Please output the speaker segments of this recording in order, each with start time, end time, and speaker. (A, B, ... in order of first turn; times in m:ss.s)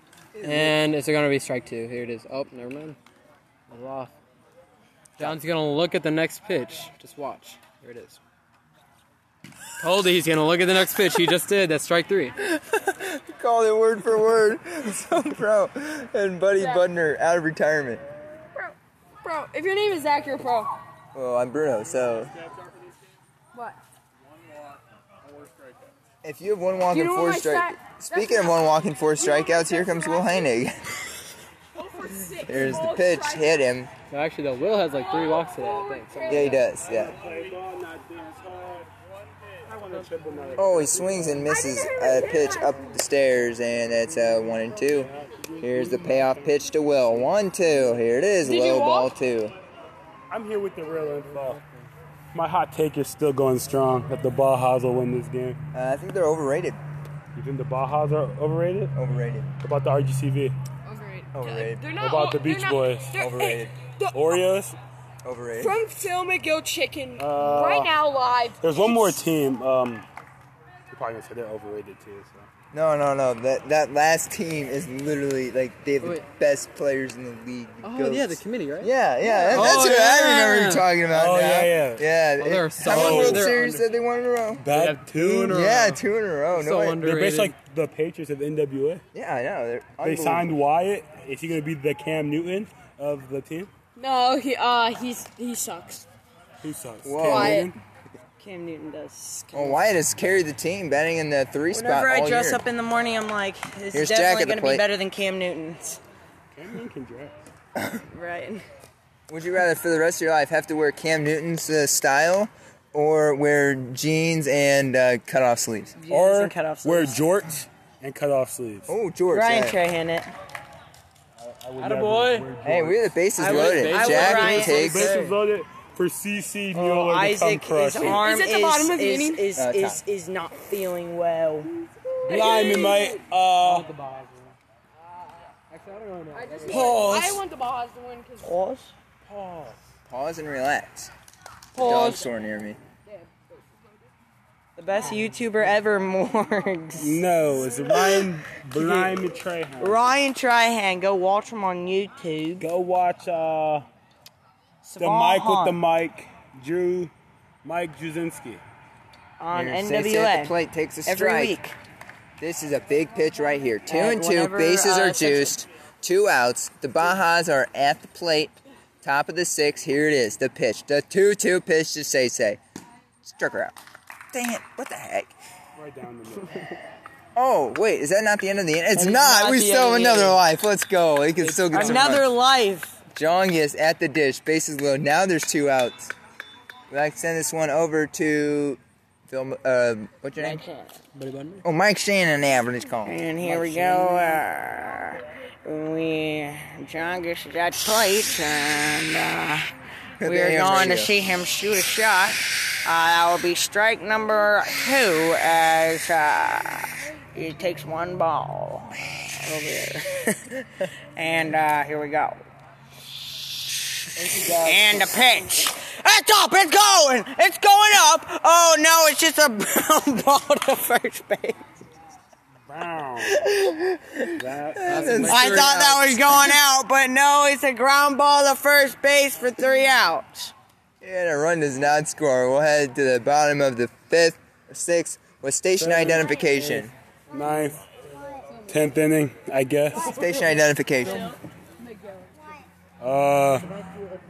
0:00.4-0:00.8 A
0:00.4-0:03.0 B
0:03.7-0:04.1 B
0:05.2-0:08.2 B
0:09.8-0:12.4 B
0:12.6-0:18.0 A
0:16.6-0:16.8 C
0:18.6-0:20.7 C
0:21.1-0:22.3 A
0:26.2-0:31.0 A
0:26.9-0:30.5 C
0:31.8-0:33.6 C
0:32.4-0:33.9 A
0:34.1-0:36.6 B
0:35.0-0:36.6 C
0:36.3-0:37.2 A
0:36.8-0:38.9 D
0:39.6-0:41.5 D
0:40.6-0:49.5 A
0:41.5-0:42.8 C
0:44.9-0:46.6 D
0:48.4-0:49.1 C
0:50.3-0:51.6 D
0:50.8-0:51.9 B
0:52.3-0:55.6 D
0:55.7-0:56.8 A
0:57.4-0:58.9 D
0:58.9-0:59.5 A
0:59.6-1:00.6 D
1:00.9-1:04.4 C
1:01.3-1:01.9 A
1:02.0-1:03.1 D
1:03.1-1:03.7 A
1:04.1-1:04.8 D
1:05.2-1:05.8 A
1:05.6-1:09.2 C
1:07.2-1:07.9 D
1:08.6-1:10.0 D
1:10.9-1:12.5 D
1:12.7-1:24.7 A
1:16.0-1:16.3 B
1:17.8-1:18.9 B
1:19.5-1:22.1 D
1:19.6-1:20.8 B
1:22.4-1:23.8 B
1:22.8-1:23.6 D
1:24.6-1:25.6 D
1:24.7-1:27.5 B
1:25.5-1:27.0 A
1:27.0-1:29.0 D
1:29.1-1:30.5 A
1:30.0-1:33.7 D
1:34.0-1:36.0 C
1:36.6-1:37.8 D
1:37.0-1:37.7 A
1:37.2-1:37.7 C
1:38.4-1:39.9 E
1:39.5-1:42.6 A
1:41.7-1:46.0 E
1:43.9-1:44.9 A
1:46.5-1:47.3 D
1:48.1-1:48.6 E
1:49.3-1:56.0 A
1:56.0-1:57.2 E
1:56.1-1:58.9 D
1:58.9-1:59.8 A
1:59.3-2:00.3 E
2:01.4-2:08.3 D
2:01.8-2:02.5 B
2:02.6-2:05.2 A
2:03.4-2:05.4 B
2:03.4-2:05.0 E
2:06.7-2:11.7 E
2:08.0-2:09.4 C
2:09.6-2:10.0 A
2:12.2-2:13.9 D
2:12.3-2:13.2 C
2:13.6-2:14.6 B
2:15.7-2:17.2 B
2:16.4-2:18.5 C
2:16.7-2:17.4 E
2:18.4-2:18.9 E
2:19.3-2:19.7 D
2:20.1-2:21.1 A
2:21.8-2:22.2 C
2:21.8-2:22.8 A
2:24.8-2:27.3 E
2:27.0-2:30.1 D
2:27.9-2:29.2 E
2:29.8-2:32.7 E
2:32.6-2:33.8 D
2:34.8-2:35.8 E
2:35.0-2:37.1 D
2:37.6-2:38.6 D
2:39.4-2:41.8 E
2:39.5-2:41.6 A
2:42.4-2:52.6 A
2:43.9-2:45.5 E
2:53.2-2:53.8 A
2:54.3-2:55.4 A
2:55.8-2:56.7 D
2:57.4-3:02.3 A
2:59.0-3:00.4 B
3:01.4-3:01.9 B
3:01.5-3:02.2 D
3:01.7-3:03.0 E
3:03.1-3:06.1 A
3:06.9-3:10.6 A
3:10.4-3:10.9 E
3:11.2-3:11.6 B
3:11.6-3:13.9 A
3:13.1-3:19.7 E
3:20.2-3:21.1 A
3:20.2-3:30.4 E
3:31.2-3:32.4 E
3:34.2-3:35.3 B
3:34.4-3:41.7 E
3:42.7-3:43.4 D
3:43.2-3:46.6 A
3:44.4-3:45.5 D
3:44.8-3:46.1 B
3:45.3-3:50.5 E
3:51.0-3:56.9 A
3:55.8-3:57.8 D
3:58.7-4:00.2 D
3:59.9-4:01.4 A
4:03.0-4:03.7 D